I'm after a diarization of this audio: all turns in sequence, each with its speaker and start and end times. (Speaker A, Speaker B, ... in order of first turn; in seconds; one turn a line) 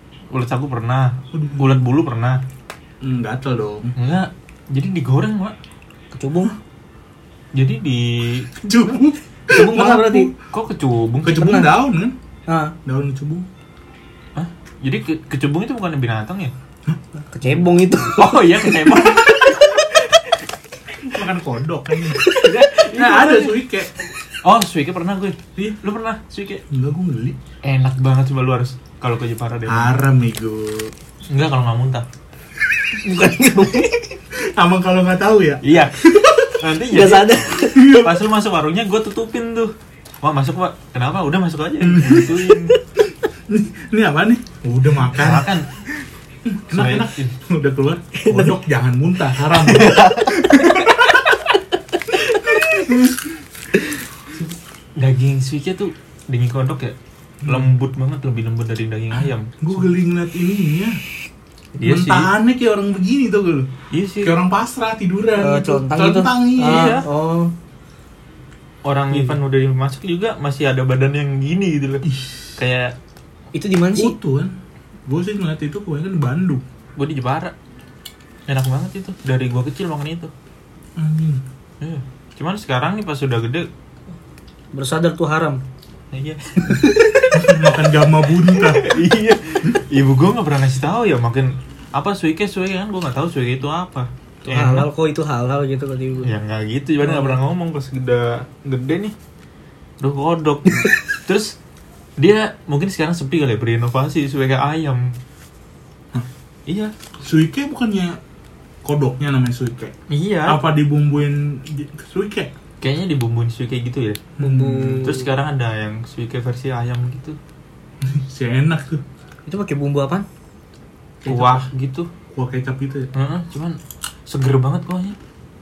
Speaker A: 0.3-2.4
Speaker B: 1.3-1.8
Speaker B: 3.0-3.9
Speaker A: 4.0-5.5
Speaker C: 6.1-6.5
Speaker A: 7.5-8.5
Speaker B: 8.6-10.3
Speaker C: 9.5-10.3
Speaker A: 10.5-11.7
Speaker B: 11.2-12.2
Speaker C: 12.5-12.7
Speaker B: 12.8-13.5
Speaker A: 14.3-16.5
Speaker C: 17.3-20.0
Speaker A: 18.0-19.9
Speaker B: 21.0-22.3
Speaker C: 22.2-22.5
Speaker A: 22.2-23.6
Speaker B: 22.9-23.9
Speaker A: 24.4-26.6
Speaker B: 26.7-27.4
Speaker A: 27.6-30.0
Speaker B: 29.7-30.9
Speaker A: 31.3-32.0
Speaker C: 33.0-34.1
Speaker B: 34.4-36.3
Speaker A: 35.6-42.7
Speaker C: 36.9-38.0
Speaker B: 37.6-38.3
Speaker B: 41.8-42.5
Speaker B: 43.5-51.1
Speaker A: 45.1-45.7
Speaker A: 46.7-47.3
Speaker C: 48.1-48.6
Speaker A: 49.5-51.0
Speaker C: 52.3-52.8
Speaker B: 52.5-53.4
Speaker A: 55.0-59.8
Speaker B: 57.4-57.7
Speaker B: 59.2-61.0
Speaker A: 61.8-62.3
Speaker B: 61.8-67.0
Speaker A: 63.9-64.3
Speaker C: 65.4-67.5
Speaker A: 66.6-67.1
Speaker A: 68.8-72.9
Speaker B: 69.1-69.4
Speaker B: 72.0-72.5
Speaker C: 73.5-74.2
Speaker B: 73.9-76.6
Speaker A: 77.0-77.5
Speaker A: 78.5-80.3
Speaker B: 81.0-81.4
Speaker A: 81.8-83.7
Speaker C: 84.7-85.6
Speaker A: 86.1-87.8
Speaker B: 87.3-89.0
Speaker A: 88.4-94.9
Speaker C: 94.4-96.3
Speaker A: 96.2-99.1
Speaker C: 97.0-97.4
Speaker A: 100.0-101.5
Speaker A: 102.2-105.1
Speaker A: 106.7-106.9
Speaker B: 107.2-108.2
Speaker B: 108.8-109.9
Speaker A: 110.1-110.6
Speaker B: 110.5-112.5
Speaker A: 112.8-114.3
Speaker B: 114.4-115.2
Speaker C: 114.4-115.2
Speaker A: 115.0-117.4
Speaker B: 118.0-119.0
Speaker C: 119.5-120.2
Speaker B: 121.2-121.7
Speaker A: 121.2-122.1
Speaker B: 122.3-123.1
Speaker A: 123.1-125.2